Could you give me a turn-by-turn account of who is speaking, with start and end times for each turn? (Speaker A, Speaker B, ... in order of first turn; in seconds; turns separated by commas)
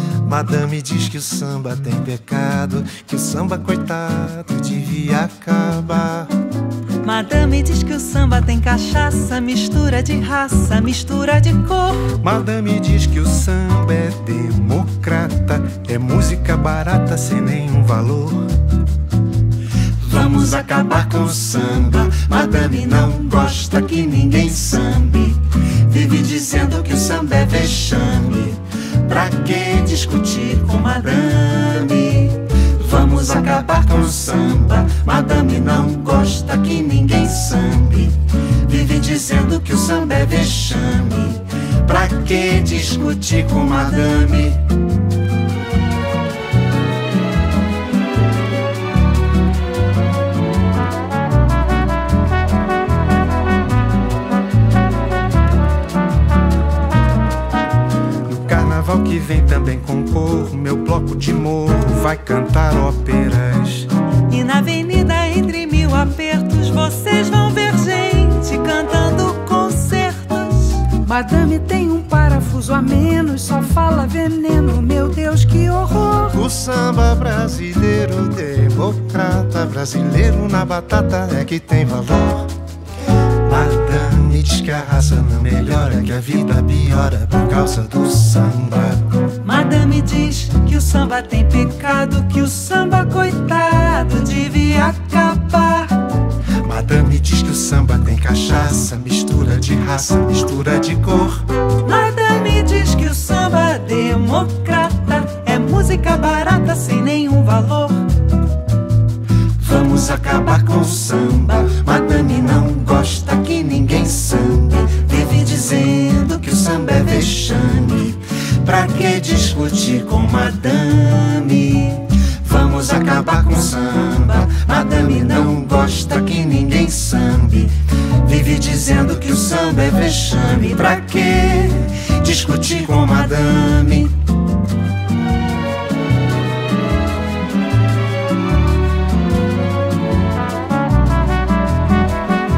Speaker A: 0.2-6.3, Speaker B: 7.0-12.1, Speaker A: 12.1-18.6, Speaker A: 20.0-44.7, Speaker A: 58.2-63.9, Speaker B: 64.2-70.9, Speaker C: 70.9-76.4, Speaker A: 76.2-82.5, Speaker A: 83.4-89.1, Speaker B: 89.4-96.1, Speaker A: 96.6-101.5, Speaker B: 101.8-108.2, Speaker A: 109.6-134.2